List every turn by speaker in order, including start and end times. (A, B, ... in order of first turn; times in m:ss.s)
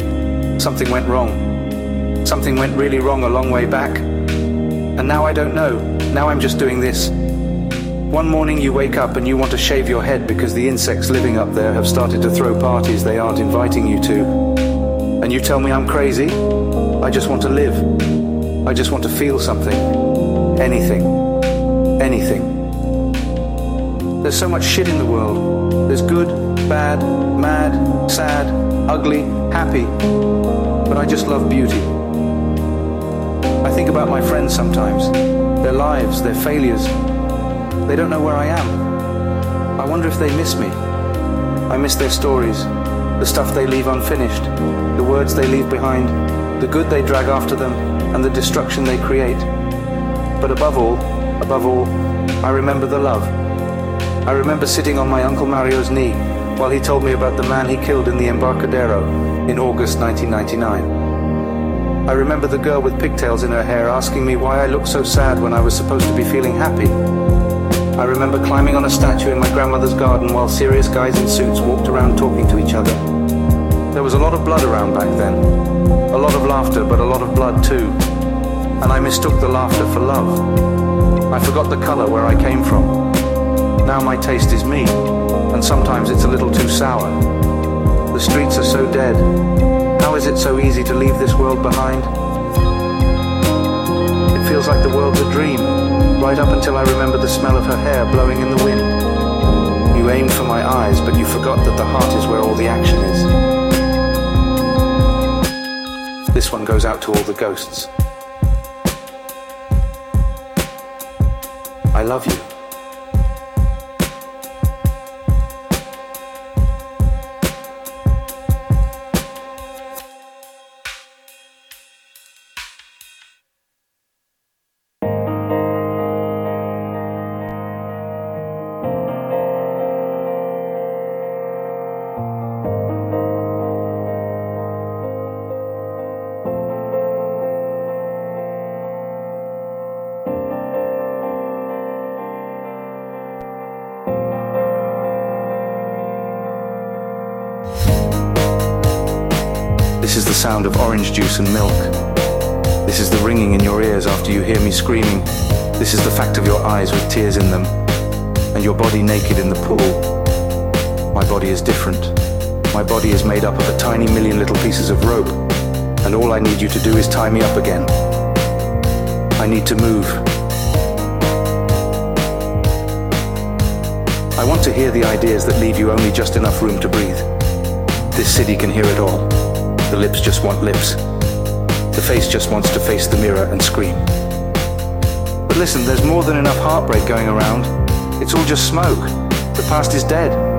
0:00.6-0:01.5 A
0:02.2-0:04.1 A
0:05.0-0:07.1 A
0:08.1-0:14.3 A
0:15.2-0:16.4 A
0:17.0-0:17.9 A
0:18.6-0:19.9 A
0:20.6-0:21.2 A
0:22.0-0:22.6 A
0:24.2-0:29.9 A
0:30.9-0:32.0 A
0:33.6-0:36.9 A
0:37.9-0:38.8 A
0:39.8-0:40.8 A
0:41.7-0:49.5 A
0:50.4-0:53.3 A
0:54.3-1:00.9 A
1:02.1-1:07.0 A
1:08.0-1:13.0 A
1:13.9-1:15.5 A
1:16.1-1:18.0 A
1:18.8-1:20.5 A
1:21.3-1:23.0 A
1:23.8-1:25.0 A
1:25.5-1:27.2 A
1:28.1-1:29.3 A
1:30.0-1:32.1 A
1:34.3-1:39.0 A
1:39.9-1:43.3 A
1:46.3-1:47.9 A
1:51.9-1:52.5 A
2:30.0-2:31.9 A
2:32.8-2:37.7 A
2:38.5-2:40.1 A
2:41.1-2:42.2 A
2:42.7-2:45.4 A
2:46.0-2:47.9 A
2:49.4-2:50.3 A
2:54.4-2:57.3 A
2:58.1-2:59.3 A
2:59.9-3:01.0 A
3:01.9-3:04.1 A
3:05.5-3:10.4 A